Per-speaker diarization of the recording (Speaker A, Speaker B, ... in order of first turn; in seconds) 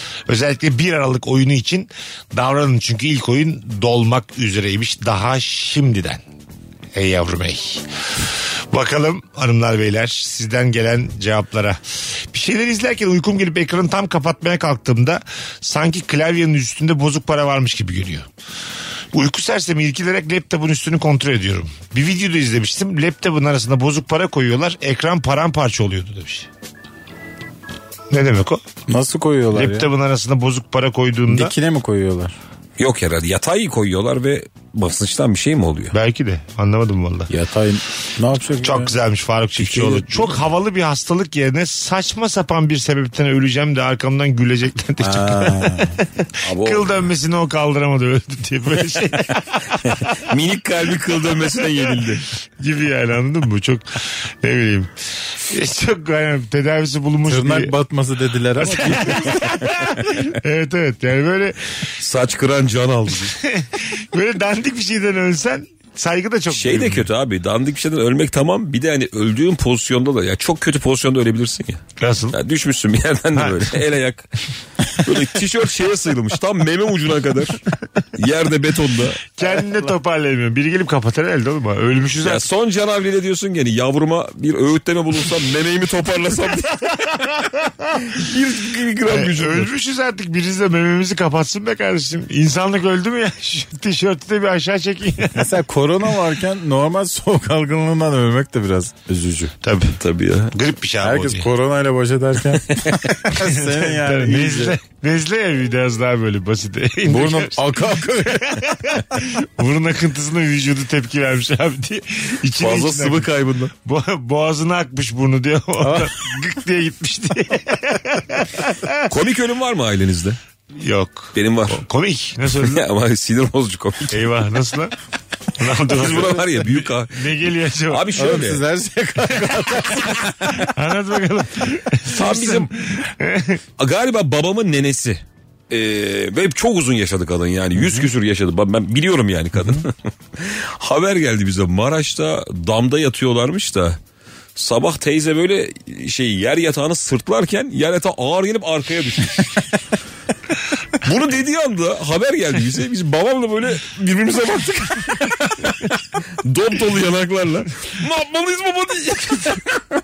Speaker A: 0.3-6.2, 6.9-7.8, 8.7-11.8, 12.3-18.2, 19.1-26.5, 28.1-28.6, 29.5-31.5, 35.9-37.3, 38.6-50.2, 51.3-54.9, 55.4-57.7, 58.6-61.8, 63.4-67.0, 72.0-72.4, 73.3-73.7, 79.4-82.5, 86.9-88.0, 89.1-95.5, 99.6-100.0, 100.5-101.5, 103.3-113.3, 113.8-119.0, 120.8-122.8, 124.1-124.9, 125.6-128.2, 129.4-133.6
Speaker B: 28.9-29.9, 31.3-32.3, 37.3-38.9, 45.0-46.0, 57.2-59.5, 95.3-99.5, 101.0-104.8, 107.1-108.6, 115.8-116.1, 128.2-130.2
Speaker C: 32.8-35.9, 39.6-40.1, 46.4-46.9, 49.9-52.2, 62.0-63.4, 66.5-74.3, 74.9-77.6, 78.1-79.2, 82.2-86.8, 88.1-89.7, 100.0-100.5, 112.6-113.7, 119.1-120.4, 121.3-121.8, 122.5-124.2, 125.7-127.3, 127.9-128.6, 132.1-132.7, 133.8-144.0, 144.5-149.6, 151.0-159.8